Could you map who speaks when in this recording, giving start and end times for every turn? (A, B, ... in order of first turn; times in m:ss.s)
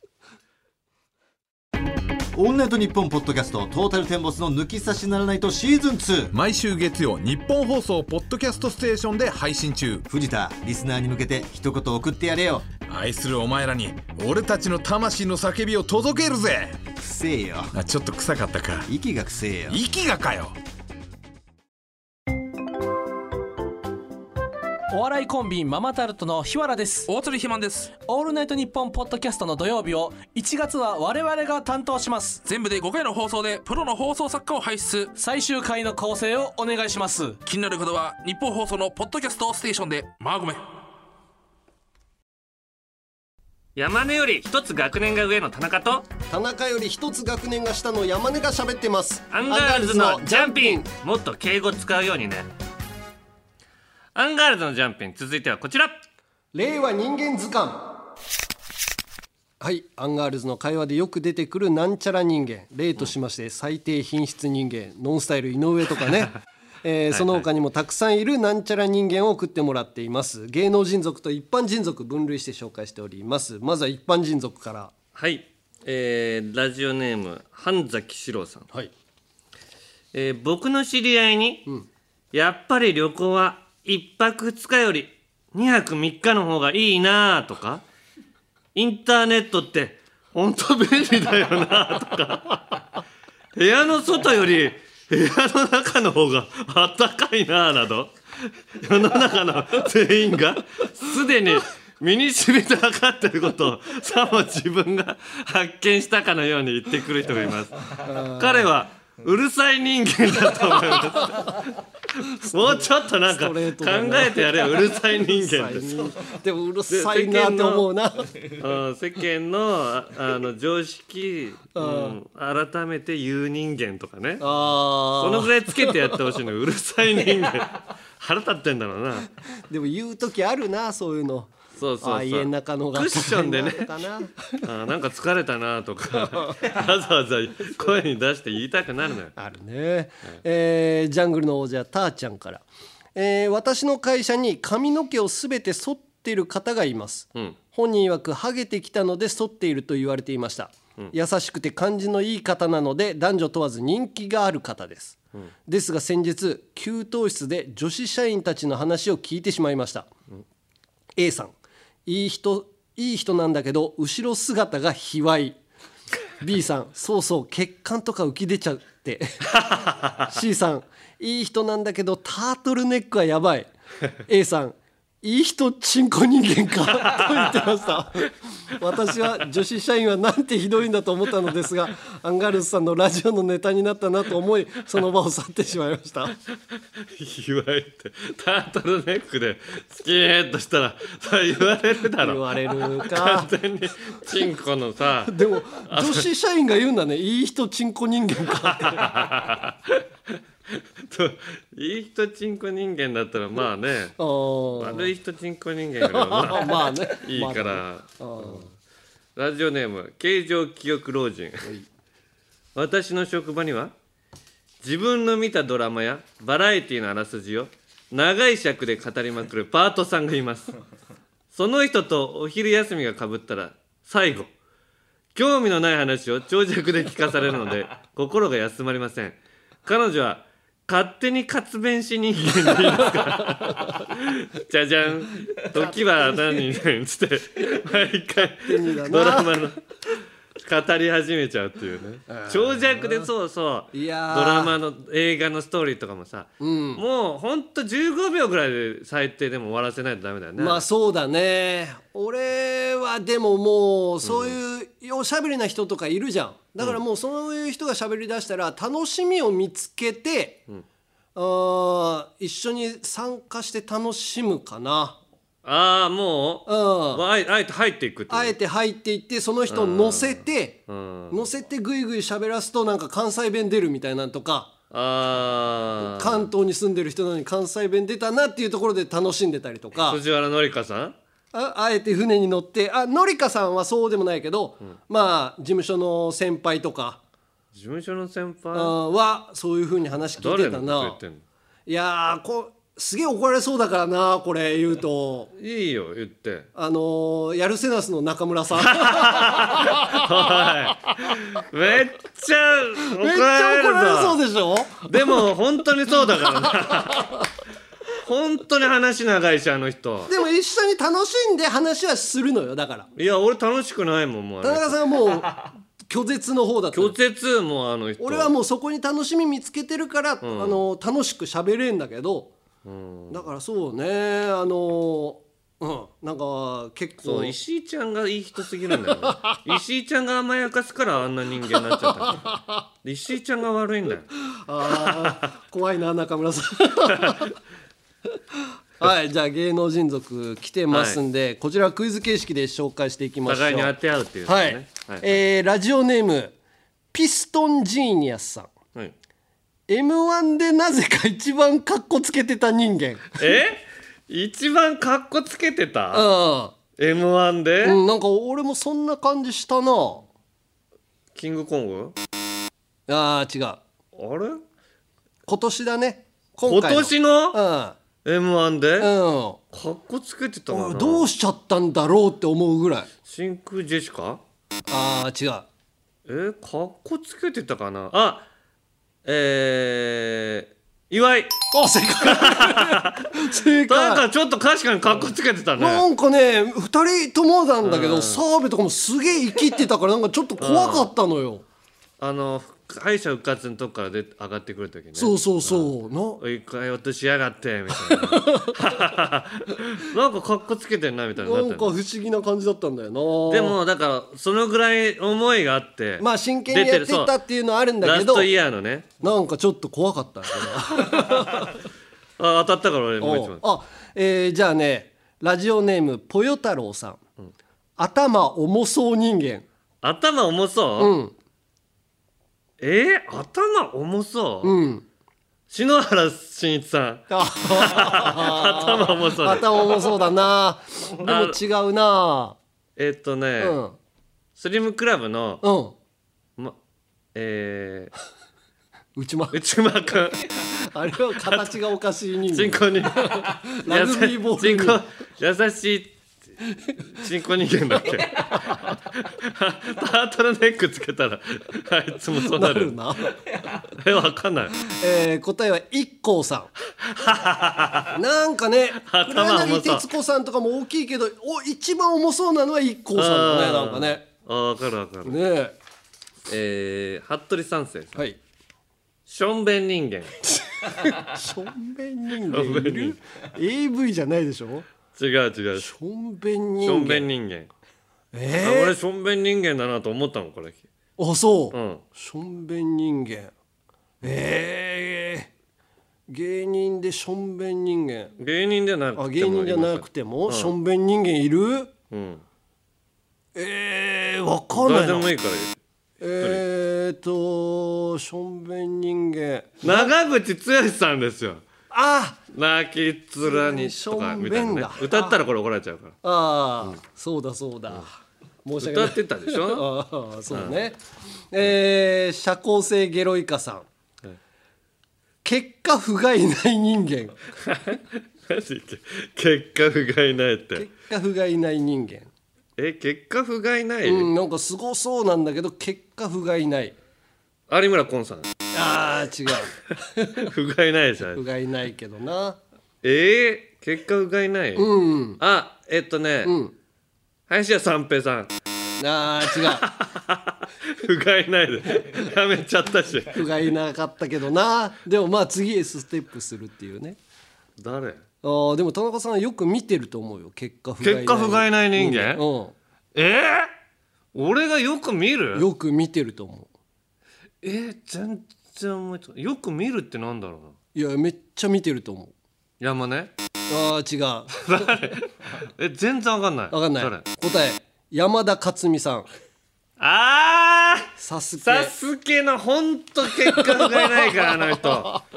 0:02.3-0:06.3 A
0:06.3-0:10.1 B
0:10.1-0:12.7 A
0:12.9-0:16.8 B
0:17.0-0:17.8 A
0:17.7-0:18.9 B
0:18.9-0:19.8 A
0:19.7-0:20.6 B
0:24.9-0:27.1 C
0:27.1-0:27.9 D
0:27.9-0:32.4 C
0:32.4-0:35.1 D
0:35.2-0:37.4 C
0:37.4-0:40.6 D
0:43.8-0:46.1 E
0:46.3-0:50.9 F
0:49.3-0:52.5 E
0:54.2-0:56.0 E
0:56.5-0:58.0 F
0:59.6-1:14.9 F
1:07.1-1:07.5 E
1:15.2-1:18.7 E
1:20.1-1:21.7 E
1:22.3-1:27.8 E
1:28.8-1:32.8 E
1:33.6-1:56.2 E
1:48.0-1:48.7 F
1:52.6-1:58.4 F
1:56.9-1:57.9 E
1:58.4-2:04.4 E
2:01.8-2:02.2 F
2:04.4-2:06.2 F
2:05.1-2:09.3 E
2:09.7-2:14.6 F
2:11.8-2:13.9 E
2:14.6-2:19.4 E
2:16.2-2:16.5 F
2:19.4-2:40.1 F
2:41.2-2:45.6 F
2:46.4-2:49.6 F
2:49.5-2:50.3 E
2:50.2-2:53.7 F
2:54.3-3:06.4 F
3:06.8-3:16.3 E
3:12.2-3:13.5 F
3:15.2-3:19.3 F
3:18.6-3:20.0 E
3:20.7-3:24.2 E
3:24.2-3:25.1 F
3:24.8-3:28.7 E
3:26.0-3:28.7 F
3:29.4-3:31.7 E
3:32.8-3:33.9 E
3:34.8-3:40.7 E
3:41.5-3:44.5 E
3:45.3-3:59.8 E
3:52.8-3:53.9 F
3:58.4-3:59.6 F
4:00.6-4:10.8 E
4:02.3-4:03.3 F
4:03.9-4:04.8 F
4:06.6-4:07.0 F
4:10.6-4:20.6 F
4:14.2-4:14.6 E
4:21.4-4:25.2 F
4:25.6-4:28.6 E
4:26.7-4:27.2 F
4:28.3-4:34.7 F
4:29.7-4:31.4 E
4:34.9-4:36.5 E
4:36.0-4:40.2 F
4:39.9-4:41.2 E
4:41.5-4:47.2 F
4:47.7-4:49.0 E
4:48.7-4:51.2 F
4:50.4-4:51.4 E
4:51.9-4:55.5 F
4:55.6-4:56.7 E
4:56.8-5:00.5 F
4:58.8-5:04.4 E
5:03.1-5:05.5 F
5:05.1-5:07.3 E
5:06.6-5:07.3 F
5:08.2-5:10.3 E
5:10.3-5:13.1 F
5:13.2-5:15.1 E
5:14.6-5:17.2 F
5:16.9-5:18.5 E
5:18.2-5:22.5 F
5:20.4-5:20.8 E
5:22.8-5:23.5 E
5:23.3-5:27.6 F
5:27.2-5:34.3 E
5:29.1-5:29.5 F
5:31.7-5:32.7 F
5:34.5-5:37.5 F
5:34.9-5:35.4 E
5:37.1-5:37.5 E
5:38.6-5:43.9 F
5:40.9-5:41.2 E
5:43.5-5:45.4 E
5:44.4-5:46.6 F
5:47.1-5:48.7 F
5:49.9-5:53.6 F
5:53.4-5:56.3 E
5:56.1-5:56.8 F
5:57.0-5:58.0 E
5:57.8-6:00.3 F
6:01.4-6:02.2 E
6:03.1-6:03.8 F
6:04.2-6:04.6 E
6:05.5-6:08.0 F
6:06.7-6:07.6 E
6:08.2-6:09.1 E
6:09.0-6:09.6 F
6:09.7-6:11.3 E
6:10.7-6:13.1 F
6:13.3-6:14.4 E
6:14.9-6:15.7 F
6:16.3-6:18.5 E
6:19.2-6:21.6 E
6:21.7-6:24.3 F
6:22.2-6:26.0 E
6:25.8-6:31.6 F
6:27.8-6:28.4 E
6:30.6-6:31.1 E
6:32.2-6:42.0 E
6:35.2-6:36.4 F
6:37.9-6:39.1 F
6:41.4-6:43.8 F
6:43.5-6:47.3 E
6:46.2-6:48.5 F
6:48.0-6:49.2 E
6:49.2-6:51.7 F
6:51.1-6:51.6 E
6:52.4-6:53.6 E
6:53.2-6:57.2 F
6:58.0-6:59.7 F
7:00.0-7:01.1 E
7:01.0-7:01.3 F
7:02.8-7:04.8 E
7:04.6-7:05.0 F
7:05.7-7:10.0 E
7:07.3-7:12.6 F
7:11.2-7:11.6 E
7:13.0-7:13.8 E
7:13.6-7:14.0 F
7:14.6-7:15.6 E
7:15.6-7:16.0 F
7:17.3-7:18.1 E
7:19.2-7:19.6 F
7:19.5-7:20.6 E
7:20.6-7:25.0 F
7:21.4-7:21.7 E
7:22.5-7:26.2 E
7:27.1-7:33.0 E
7:28.5-7:28.8 F
7:32.3-7:33.4 F
7:34.0-7:34.8 E
7:34.9-7:36.7 F
7:37.0-7:38.2 E
7:38.1-7:44.2 F
7:39.0-7:40.1 E
7:43.1-7:45.4 E
7:45.2-7:45.8 F
7:46.5-7:48.2 E
7:49.3-7:50.3 E
7:50.6-7:54.9 F
7:52.5-7:53.2 E
7:55.1-7:55.9 E
7:55.8-7:57.3 F
7:56.8-7:57.7 E
7:58.3-7:59.0 F
7:58.6-8:00.8 E
8:01.2-8:03.5 F
8:01.7-8:02.0 E
8:04.2-8:05.5 F
8:06.3-8:08.3 F
8:08.4-8:10.7 E
8:09.2-8:11.9 F
8:12.1-8:12.4 E
8:13.6-8:15.3 F
8:14.7-8:15.8 E
8:16.2-8:20.1 F
8:19.8-8:21.7 E
8:21.9-8:22.4 F
8:22.5-8:26.2 E
8:23.4-8:25.4 F
8:26.2-8:28.1 F
8:28.6-8:31.0 F
8:28.8-8:29.9 E
8:30.5-8:30.8 E
8:31.5-8:33.9 F
8:35.4-8:37.4 F
8:37.6-8:40.9 E
8:40.8-8:42.3 F
8:42.8-8:44.3 E
8:44.0-8:47.0 F
8:47.7-8:48.5 E
8:48.7-8:50.5 F
8:50.4-8:51.4 E
8:51.3-8:52.6 F
8:53.0-8:56.6 E
8:54.8-8:55.4 F
8:56.4-8:56.7 F
8:57.5-8:58.5 E
8:59.0-8:59.9 F
8:59.6-9:03.4 E
9:03.3-9:07.2 F
9:07.8-9:08.2 E
9:08.4-9:12.8 F
9:11.0-9:12.4 E
9:13.2-9:13.7 E
9:14.3-9:15.7 E
9:15.5-9:16.7 F
9:17.6-9:20.8 E
9:20.9-9:22.3 F
9:22.8-9:23.3 E
9:23.7-9:24.9 F
9:24.6-9:27.3 E
9:26.7-9:29.3 F
9:30.0-9:31.1 E
9:31.2-9:31.9 F
9:31.6-9:35.2 E
9:33.6-9:35.0 F